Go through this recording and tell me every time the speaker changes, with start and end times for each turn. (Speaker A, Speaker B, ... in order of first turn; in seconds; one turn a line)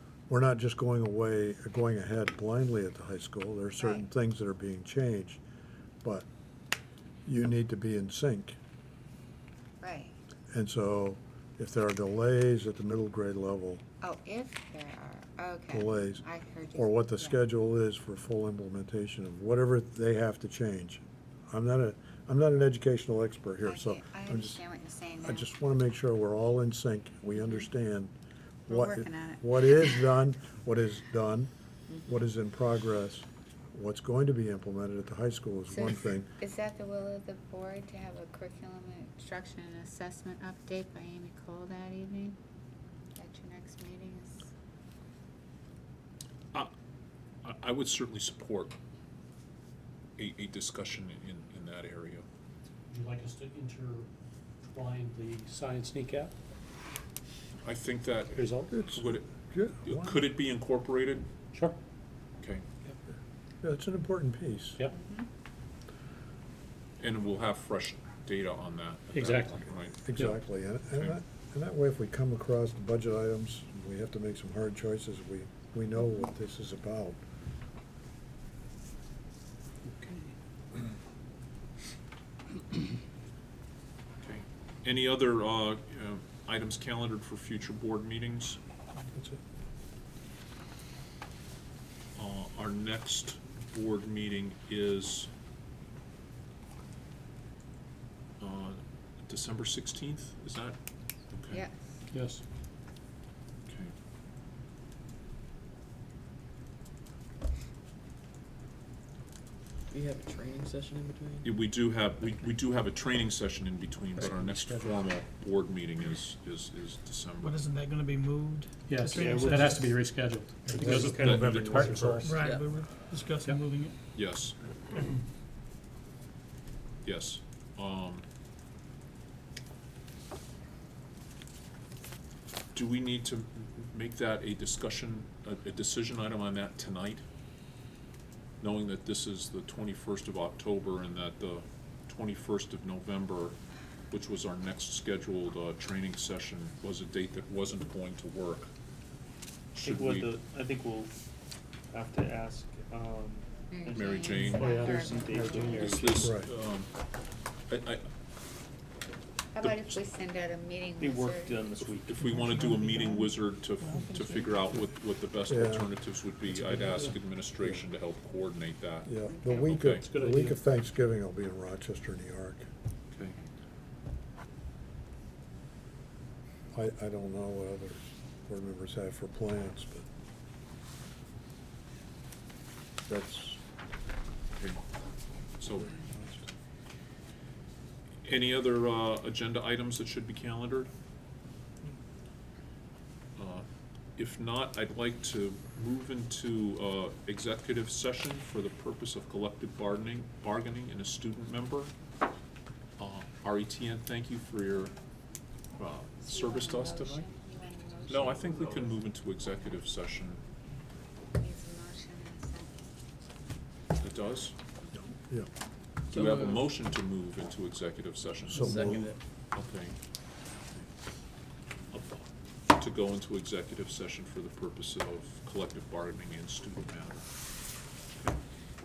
Speaker A: 0.3-5.4
Speaker B: 3.8-4.1
Speaker A: 7.3-8.6
Speaker B: 9.8-10.2
Speaker A: 10.5-13.8
Speaker B: 14.0-17.4
Speaker A: 15.7-24.6
Speaker B: 23.6-25.5
Speaker A: 25.2-28.1
Speaker B: 27.4-27.7
Speaker A: 28.7-31.5
Speaker B: 28.7-30.1
Speaker A: 32.0-36.3
Speaker B: 35.7-42.4
Speaker B: 43.2-44.5
Speaker C: 47.4-48.8
Speaker C: 50.2-52.3
Speaker D: 52.9-54.1
Speaker D: 54.7-56.4
Speaker C: 57.6-59.3
Speaker D: 58.4-58.8
Speaker A: 58.7-60.2
Speaker C: 59.8-61.3
Speaker D: 61.5-61.8
Speaker A: 63.6-64.8
Speaker B: 64.9-65.3
Speaker C: 67.0-70.0
Speaker D: 69.1-69.6
Speaker A: 70.0-77.2
Speaker C: 70.9-71.2
Speaker C: 84.2-88.6
Speaker A: 89.1-89.4
Speaker C: 92.2-95.3
Speaker C: 98.4-100.8
Speaker C: 101.3-101.6
Speaker B: 101.5-101.8
Speaker D: 102.1-102.4
Speaker C: 103.7-103.9
Speaker E: 109.9-111.6
Speaker C: 111.4-117.6
Speaker D: 114.2-115.0
Speaker F: 117.4-119.9
Speaker D: 118.9-122.8
Speaker G: 119.1-119.9
Speaker F: 120.6-121.2
Speaker A: 120.7-122.4
Speaker G: 120.8-122.4
Speaker C: 121.2-121.8
Speaker F: 122.2-124.0
Speaker E: 122.4-122.7
Speaker C: 124.1-124.6
Speaker C: 127.0-128.2
Speaker C: 132.7-137.2
Speaker C: 138.6-143.6
Speaker C: 144.1-148.7
Speaker C: 149.8-150.3
Speaker G: 149.8-151.1
Speaker G: 151.9-156.4
Speaker B: 153.7-155.9
Speaker C: 153.9-154.7
Speaker D: 154.8-155.8
Speaker C: 155.7-156.9
Speaker A: 156.2-156.5
Speaker C: 157.7-158.1
Speaker B: 159.5-161.6
Speaker C: 159.6-160.0
Speaker G: 161.0-162.3
Speaker C: 161.8-170.1
Speaker F: 162.2-164.4
Speaker A: 165.5-165.9
Speaker A: 169.1-172.7
Speaker B: 169.3-169.9
Speaker D: 170.0-170.6
Speaker C: 173.1-173.4
Speaker A: 176.7-180.1
Speaker A: 183.1-183.6
Speaker C: 185.6-186.0
Speaker A: 185.8-186.4
Speaker C: 188.2-190.9
Speaker C: 193.4-201.9
Speaker C: 203.0-204.9
Speaker C: 205.8-207.3
Speaker B: 206.2-209.0
Speaker C: 208.1-210.4
Speaker B: 211.4-212.9
Speaker C: 214.0-214.6
Speaker A: 214.9-215.5
Speaker C: 216.1-220.0
Speaker E: 216.1-216.7
Speaker A: 218.5-219.1
Speaker E: 218.6-219.2
Speaker C: 221.9-227.3